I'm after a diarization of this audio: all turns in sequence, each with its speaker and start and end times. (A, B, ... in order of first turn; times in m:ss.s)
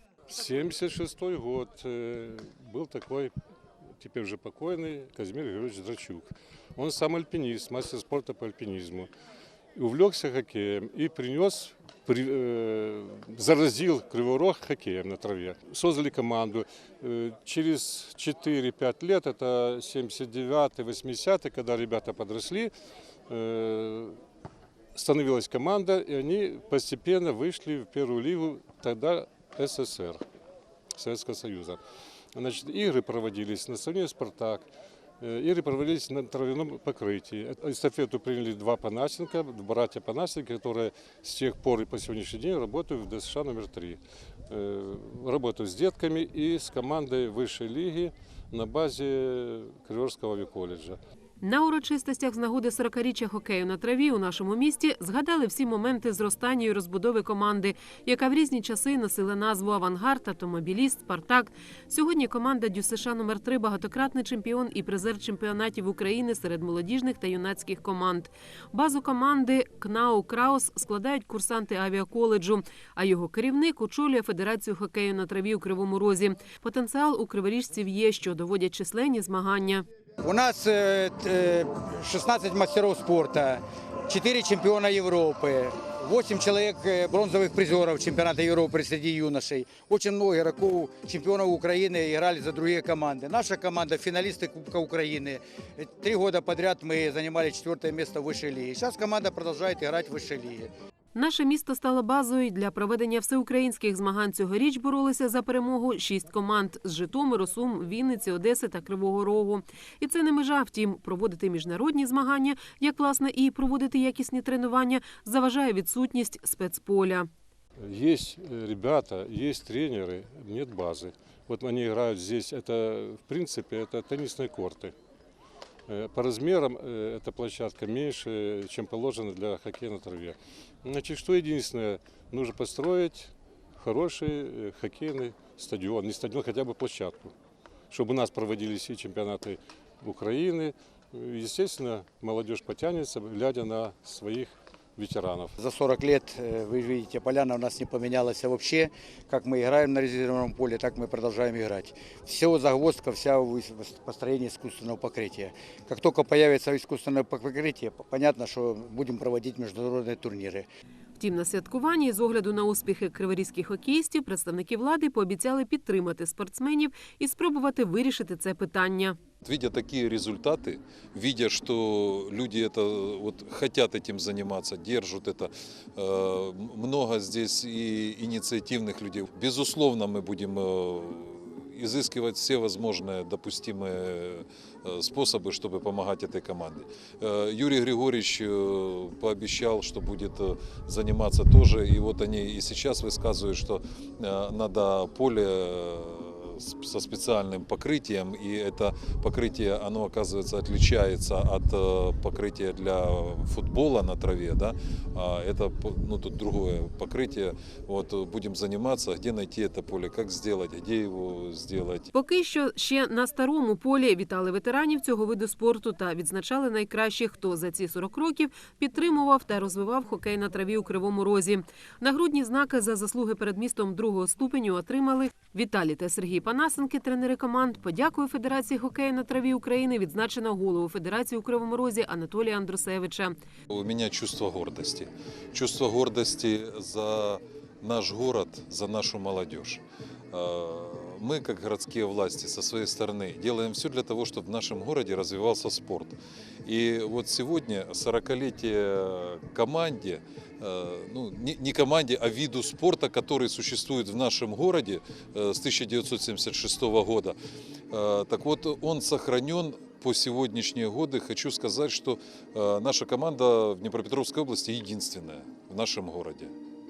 0:00.3-0:03.3 A
0:04.0-0:09.1 A
0:09.8-0:22.7 A
0:23.3-0:24.2 A
0:24.9-0:30.2 A
0:30.9-0:31.8 A
0:32.3-0:34.6 A
0:35.2-0:51.0 A
0:51.4-1:19.8 B
1:20.2-1:40.7 C
1:41.1-1:57.3 B
1:57.8-2:04.9 A
2:05.9-2:17.3 A
2:17.9-2:25.6 A
2:25.6-2:40.6 C
2:41.2-2:49.2 B
2:49.4-3:32.1 D
3:32.1-3:53.3 B
3:53.7-4:17.4 D
4:17.9-4:26.5 D